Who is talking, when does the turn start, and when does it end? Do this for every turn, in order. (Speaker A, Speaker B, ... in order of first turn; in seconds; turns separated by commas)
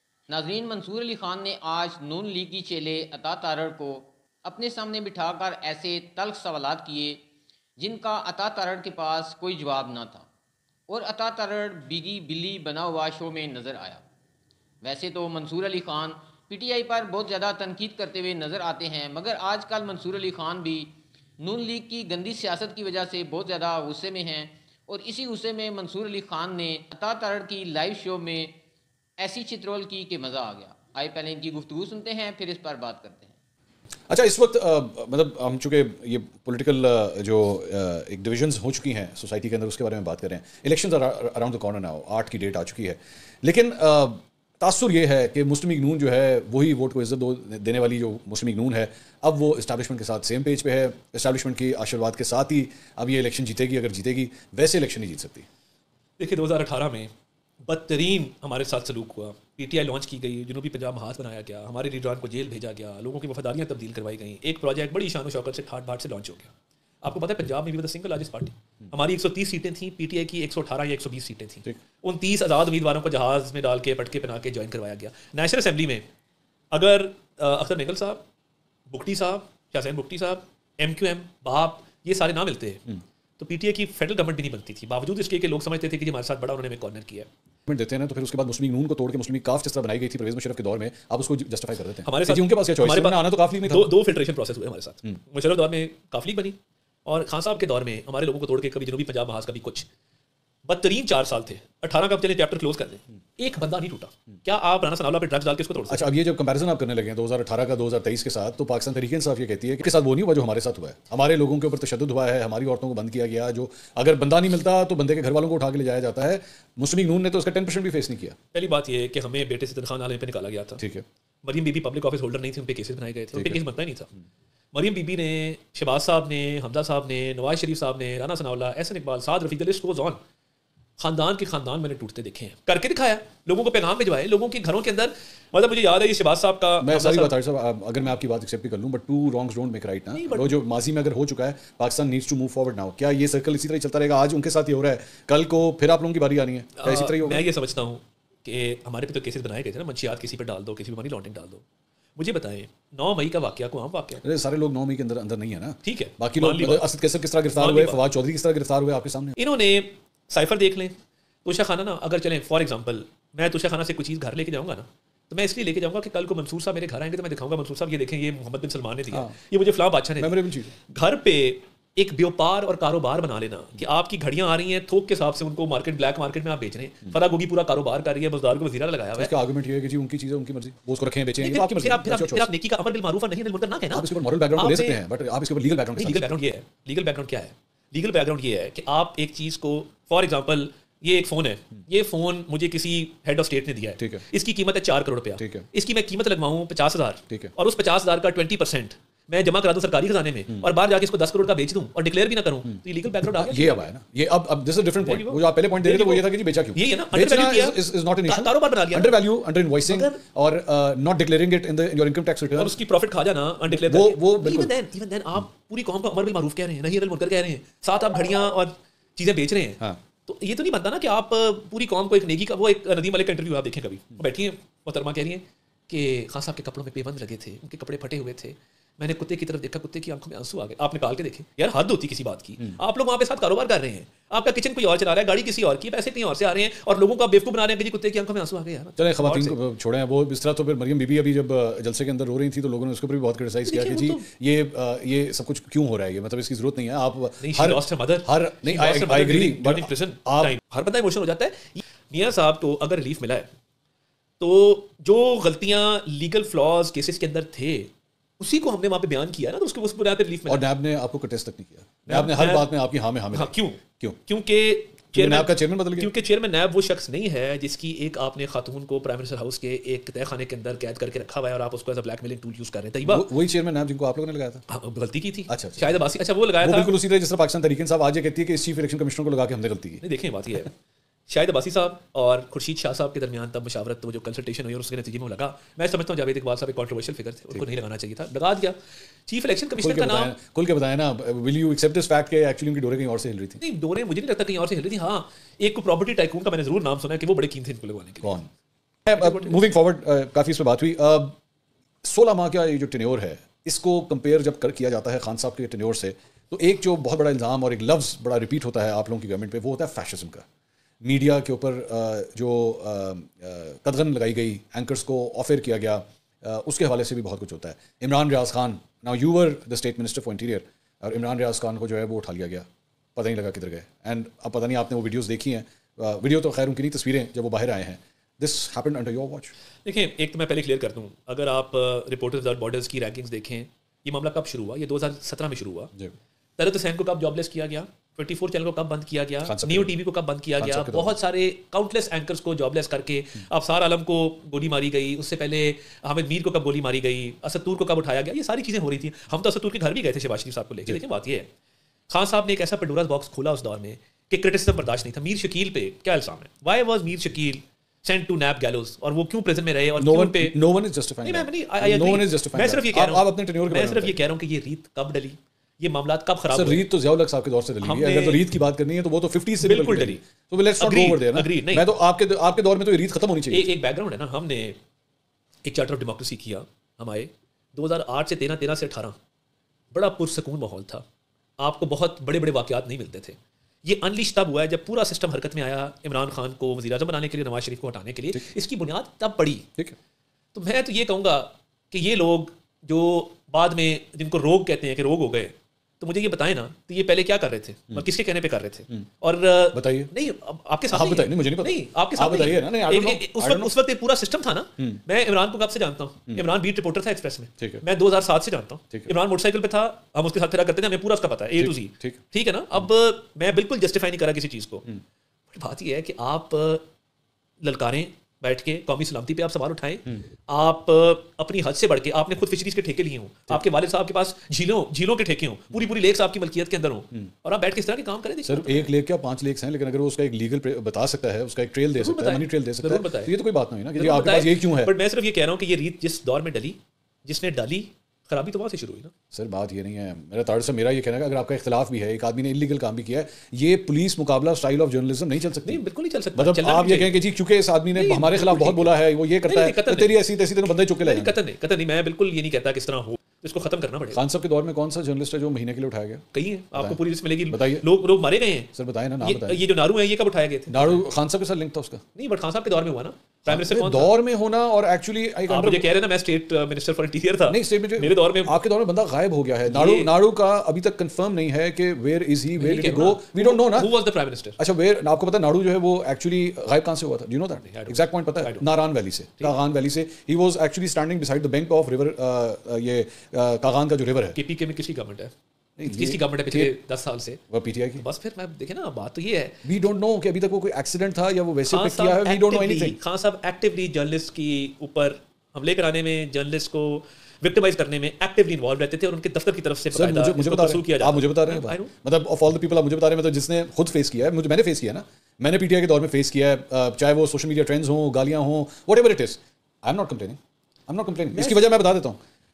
Speaker A: 0.3-7.2, Speaker A: 7.8-10.3, Speaker A: 10.9-14.0, Speaker A: 14.8-28.5, Speaker A: 29.2-33.3, Speaker B: 34.1-55.5, Speaker C: 56.2-57.1, Speaker C: 57.6-76.0, Speaker C: 76.7-78.2, Speaker C: 78.9-82.8, Speaker C: 83.4-87.3, Speaker B: 87.7-94.0, Speaker C: 92.0-99.9, Speaker C: 100.7-106.1, Speaker B: 105.9-118.4, Speaker C: 118.5-120.8, Speaker B: 120.8-121.0, Speaker C: 121.4-124.1, Speaker B: 123.3-123.6, Speaker C: 124.7-130.2, Speaker C: 131.0-137.3, Speaker B: 136.8-147.4, Speaker C: 140.1-140.6, Speaker C: 146.8-151.6, Speaker C: 152.2-154.2, Speaker B: 154.2-159.3, Speaker C: 155.8-156.9, Speaker C: 157.5-158.0, Speaker C: 159.4-179.3, Speaker B: 169.1-169.3, Speaker B: 170.2-170.7, Speaker B: 179.1-182.5, Speaker C: 181.4-185.0, Speaker B: 183.9-186.3, Speaker C: 186.0-203.9, Speaker B: 195.4-195.7, Speaker B: 203.4-212.8, Speaker C: 205.0-209.2, Speaker C: 209.8-210.2, Speaker C: 212.5-239.6, Speaker B: 213.7-214.7, Speaker B: 239.0-250.6, Speaker C: 243.7-244.2, Speaker C: 247.4-253.5, Speaker C: 254.4-260.6, Speaker B: 260.4-264.2, Speaker C: 262.1-262.7, Speaker C: 263.3-273.3, Speaker B: 265.1-266.1, Speaker B: 273.0-274.6, Speaker C: 274.7-276.9, Speaker B: 275.5-276.0, Speaker B: 276.6-280.0, Speaker C: 280.0-280.7, Speaker C: 281.3-290.3, Speaker B: 289.8-293.6, Speaker C: 293.6-298.4, Speaker B: 298.2-298.5, Speaker B: 299.1-301.4, Speaker C: 299.1-299.6, Speaker B: 302.0-310.4, Speaker B: 311.0-329.5, Speaker C: 329.8-335.9, Speaker C: 336.6-351.5, Speaker B: 339.4-340.0, Speaker B: 340.6-341.2, Speaker C: 352.1-360.6, Speaker B: 360.0-364.1, Speaker C: 361.2-366.9, Speaker B: 366.5-373.7, Speaker C: 367.8-368.4, Speaker C: 369.6-370.2, Speaker C: 370.8-371.9, Speaker C: 373.5-374.8, Speaker C: 375.6-379.1, Speaker C: 379.9-381.0, Speaker C: 381.6-389.7, Speaker C: 390.5-414.9, Speaker B: 399.7-400.1, Speaker B: 400.9-403.7, Speaker B: 411.6-412.2, Speaker C: 415.5-416.8, Speaker C: 417.6-428.9, Speaker B: 428.4-434.9, Speaker C: 432.0-433.3, Speaker C: 433.9-439.1, Speaker B: 439.3-445.8, Speaker C: 445.6-447.2, Speaker B: 446.3-451.3, Speaker C: 447.9-454.2, Speaker B: 454.1-457.9, Speaker C: 456.3-461.0, Speaker B: 458.7-459.6, Speaker B: 460.7-462.0, Speaker C: 462.1-464.1, Speaker B: 463.5-465.9, Speaker C: 465.5-468.6, Speaker B: 467.4-473.9, Speaker C: 469.7-470.1, Speaker C: 472.6-474.6, Speaker B: 474.6-484.4, Speaker C: 477.6-478.6, Speaker C: 484.3-485.3, Speaker B: 485.8-486.7, Speaker C: 485.8-487.4, Speaker B: 487.5-488.0, Speaker C: 488.0-489.6, Speaker B: 489.6-493.0, Speaker C: 491.7-501.9, Speaker B: 499.9-512.2, Speaker C: 511.3-511.6